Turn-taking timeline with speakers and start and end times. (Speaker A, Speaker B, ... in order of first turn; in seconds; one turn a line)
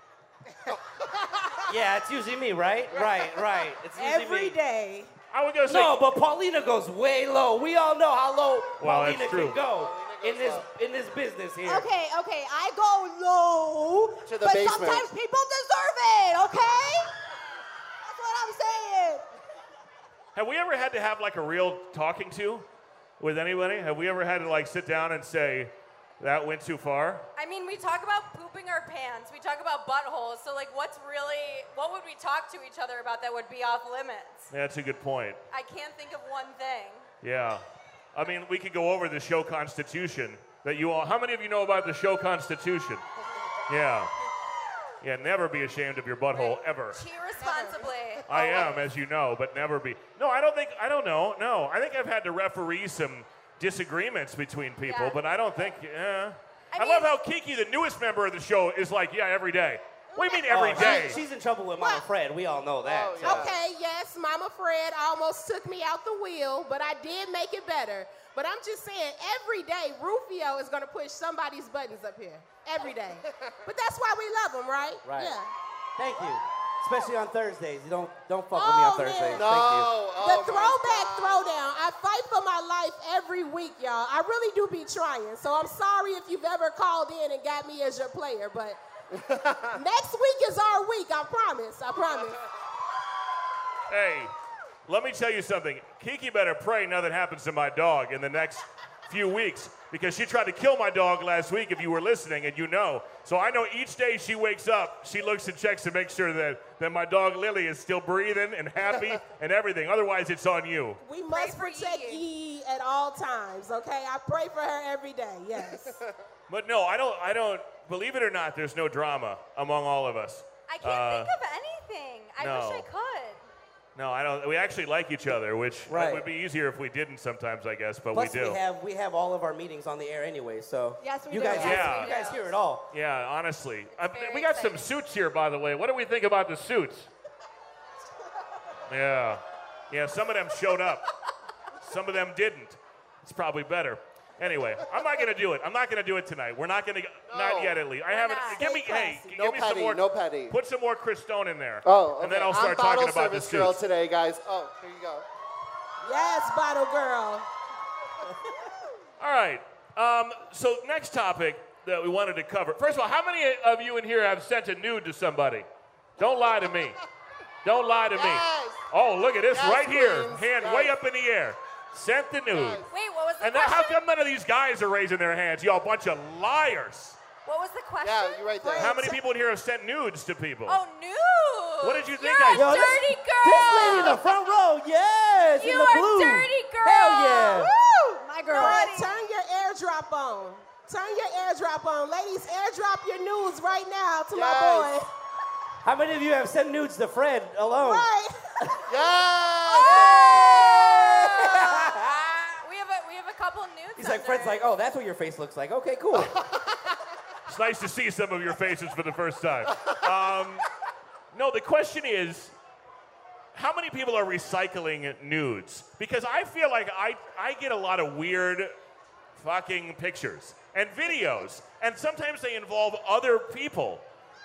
Speaker A: 0.7-1.6
Speaker B: 1.7-4.6
Speaker C: 3.9-5.1
Speaker D: 5.3-6.0
Speaker B: 5.7-11.8
Speaker D: 8.8-9.6
Speaker A: 9.7-10.7
Speaker E: 11.6-17.1
Speaker A: 14.2-15.1
Speaker E: 18.0-19.2
Speaker D: 20.3-22.6
Speaker D: 23.2-27.2
Speaker F: 27.4-34.5
Speaker D: 34.5-35.4
Speaker F: 35.5-37.1
Speaker D: 37.2-43.0
Speaker D: 43.7-44.1
Speaker D: 45.0-47.0
Speaker F: 46.3-48.8
Speaker C: 47.4-47.9
Speaker D: 48.3-61.2
Speaker F: 54.8-55.2
Speaker F: 56.7-57.1
Speaker C: 60.1-61.0
Speaker B: 60.5-63.5
Speaker C: 61.8-62.0
Speaker A: 62.8-63.6
Speaker C: 63.2-75.5
Speaker A: 73.2-73.6
Speaker B: 75.0-75.4
Speaker B: 76.0-79.9
Speaker C: 78.5-79.5
Speaker A: 79.3-81.5
Speaker C: 80.2-88.8
Speaker A: 89.1-89.8
Speaker C: 89.7-92.4
Speaker D: 93.9-94.3
Speaker D: 94.9-111.0
Speaker C: 111.0-116.0
Speaker F: 111.3-112.2
Speaker A: 115.6-116.1
Speaker D: 116.5-121.3
Speaker F: 120.7-123.4
Speaker D: 122.4-122.9
Speaker D: 124.0-128.6
Speaker B: 125.9-126.3
Speaker B: 128.1-132.8
Speaker E: 131.0-132.3
Speaker F: 131.5-132.4
Speaker D: 131.5-132.1
Speaker D: 132.9-137.1
Speaker F: 133.9-134.9
Speaker D: 138.9-141.1
Speaker D: 141.8-153.8
Speaker A: 147.3-147.8
Speaker F: 148.1-148.9
Speaker A: 148.6-150.5
Speaker A: 151.8-155.2
Speaker C: 156.0-157.4
Speaker D: 159.2-165.7
Speaker D: 166.2-167.0
Speaker D: 167.6-172.8
Speaker A: 168.1-168.8
Speaker A: 169.5-170.9
Speaker A: 172.5-172.8
Speaker F: 172.9-174.0
Speaker D: 173.4-177.2
Speaker F: 177.4-178.5
Speaker A: 178.0-179.1
Speaker C: 178.6-179.1
Speaker D: 178.8-180.8
Speaker F: 180.7-184.4
Speaker D: 181.8-182.9
Speaker B: 182.5-187.7
Speaker F: 185.5-187.7
Speaker E: 188.2-188.8
Speaker F: 188.5-189.2
Speaker C: 188.5-195.1
Speaker A: 194.3-194.9
Speaker B: 195.8-198.1
Speaker C: 197.8-198.4
Speaker A: 198.9-200.6
Speaker F: 199.7-202.0
Speaker C: 199.8-201.0
Speaker B: 200.2-202.3
Speaker F: 202.6-204.6
Speaker B: 204.0-206.3
Speaker A: 206.2-206.7
Speaker D: 207.5-210.7
Speaker D: 211.3-212.5
Speaker D: 213.5-218.7
Speaker D: 219.3-224.0